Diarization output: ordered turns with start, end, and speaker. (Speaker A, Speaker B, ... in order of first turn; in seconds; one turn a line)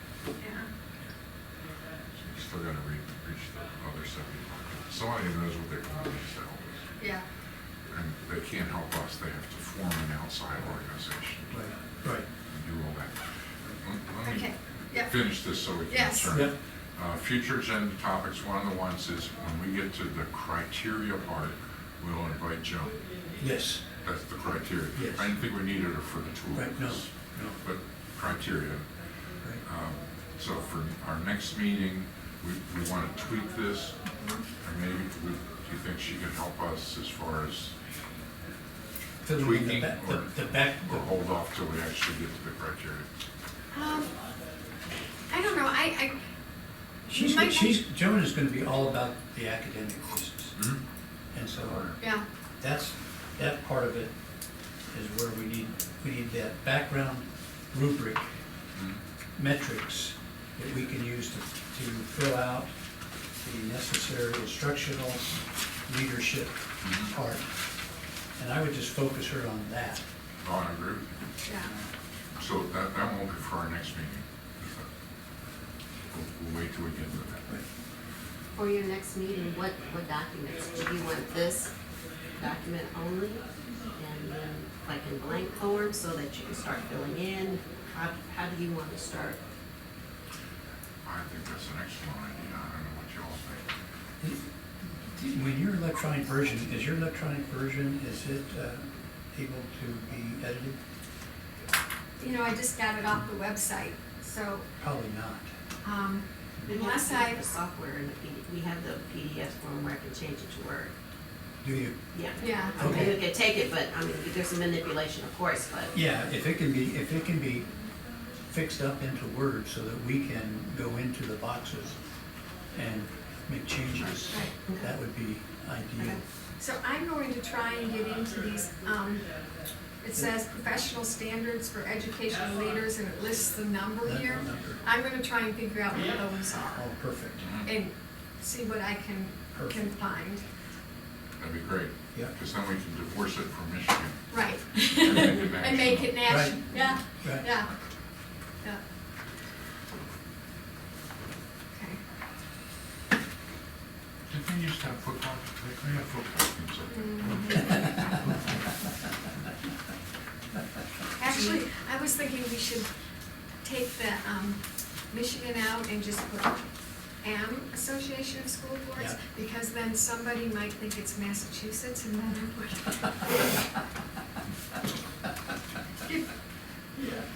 Speaker A: 0.4-0.7
Speaker B: 2.1-6.9
Speaker A: 7.0-7.2
Speaker B: 7.9-11.7
Speaker C: 11.5-12.3
Speaker B: 12.5-23.0
Speaker A: 14.2-15.2
Speaker A: 15.9-16.3
Speaker C: 23.4-23.8
Speaker B: 24.0-29.0
Speaker C: 24.9-25.3
Speaker C: 26.5-27.6
Speaker B: 29.6-34.0
Speaker B: 34.6-37.8
Speaker C: 39.2-41.1
Speaker B: 39.3-43.1
Speaker A: 43.7-44.1
Speaker A: 45.3-46.2
Speaker A: 47.1-47.7
Speaker C: 47.1-50.6
Speaker B: 50.5-50.8
Speaker C: 51.3-52.0
Speaker B: 51.5-52.0
Speaker A: 52.0-52.3
Speaker C: 52.6-54.1
Speaker C: 54.9-58.3
Speaker B: 58.7-59.0
Speaker C: 59.4-62.7
Speaker C: 63.4-67.5
Speaker B: 66.8-67.2
Speaker C: 68.4-70.0
Speaker B: 70.4-71.2
Speaker A: 71.5-71.7
Speaker B: 72.4-74.9
Speaker B: 76.1-77.5
Speaker D: 78.5-81.7
Speaker D: 82.3-89.4
Speaker B: 91.0-93.7
Speaker C: 95.0-100.8
Speaker A: 102.2-104.7
Speaker C: 104.8-105.5
Speaker A: 105.8-107.4
Speaker D: 106.7-110.9
Speaker C: 111.6-112.0
Speaker D: 112.1-115.9
Speaker A: 112.4-113.1
Speaker C: 112.5-113.2
Speaker C: 115.9-117.7
Speaker C: 118.5-122.0
Speaker C: 122.7-126.2
Speaker D: 124.6-124.9
Speaker A: 126.6-129.3
Speaker A: 130.0-136.8
Speaker C: 134.0-134.8
Speaker C: 136.7-137.5
Speaker B: 137.4-137.7
Speaker A: 137.6-140.4
Speaker C: 139.5-140.0
Speaker B: 141.4-146.3
Speaker A: 144.3-147.7
Speaker C: 146.3-147.5
Speaker A: 151.7-152.0
Speaker B: 154.3-158.4
Speaker A: 156.9-157.9
Speaker A: 161.2-162.9
Speaker D: 161.3-161.6
Speaker A: 163.6-166.7
Speaker A: 167.2-173.5